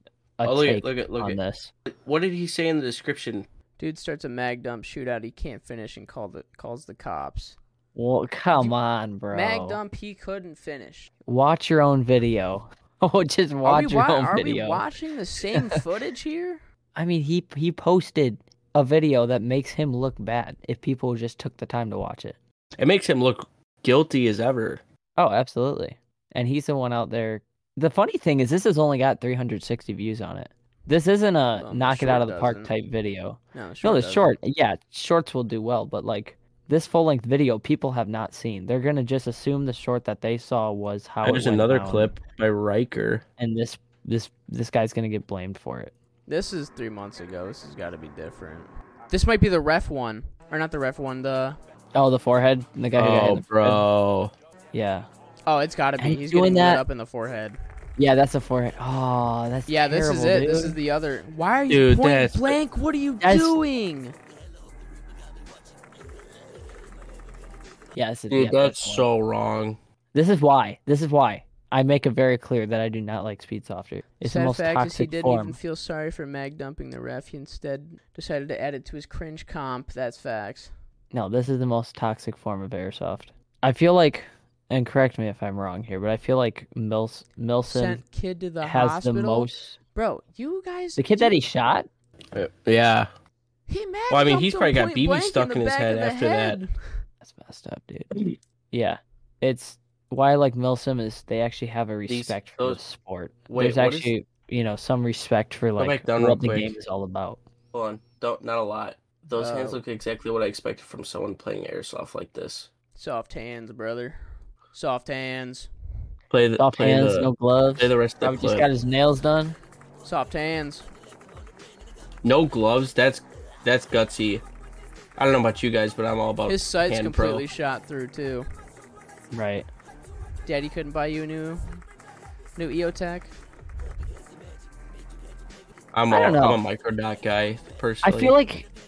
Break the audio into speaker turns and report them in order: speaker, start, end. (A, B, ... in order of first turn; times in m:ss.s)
0:00.4-0:01.7 A
0:00.4-0:03.5 B
0:03.8-0:07.6 C
0:07.9-0:09.8 A
0:09.3-0:11.1 C
0:11.2-0:14.9 A
0:13.6-0:16.6 C
0:17.0-0:22.4 A
0:22.8-0:24.8 B
0:25.2-0:42.1 A
0:31.6-0:32.7 C
0:33.5-0:34.3 C
0:41.2-0:43.2 B
0:43.4-0:45.9 A
0:46.3-0:51.6 C
0:51.9-0:53.8 A
0:53.0-0:54.3 B
0:54.7-0:55.1 A
0:55.4-0:57.6 C
0:56.0-0:56.8 A
0:58.0-1:00.8 A
0:59.7-1:04.2 C
1:01.7-1:02.6 B
1:03.2-1:03.6 A
1:07.9-1:09.1 A
1:08.3-1:09.8 B
1:10.1-1:15.6 A
1:14.2-1:20.7 C
1:21.1-1:28.0 A
1:27.7-1:31.4 C
1:28.6-1:29.8 A
1:31.0-1:31.9 A
1:32.3-1:33.1 B
1:33.7-1:36.7 C
1:34.1-1:36.6 B
1:37.2-1:38.2 A
1:38.7-1:47.4 A
1:42.1-1:42.8 B
1:43.5-1:44.1 B
1:45.8-1:46.7 B
1:47.7-1:52.7 B
1:49.4-1:49.8 C
1:53.0-1:55.7 C
1:56.3-1:58.7 B
1:56.6-1:59.6 A
2:00.0-2:00.9 C
2:02.2-2:04.4 B
2:05.2-2:07.4 B
2:06.5-2:08.5 C
2:09.3-2:09.7 A
2:10.4-2:11.6 C
2:12.6-2:13.3 C
2:15.9-2:18.4 B
2:16.1-2:16.6 A
2:18.0-2:18.7 A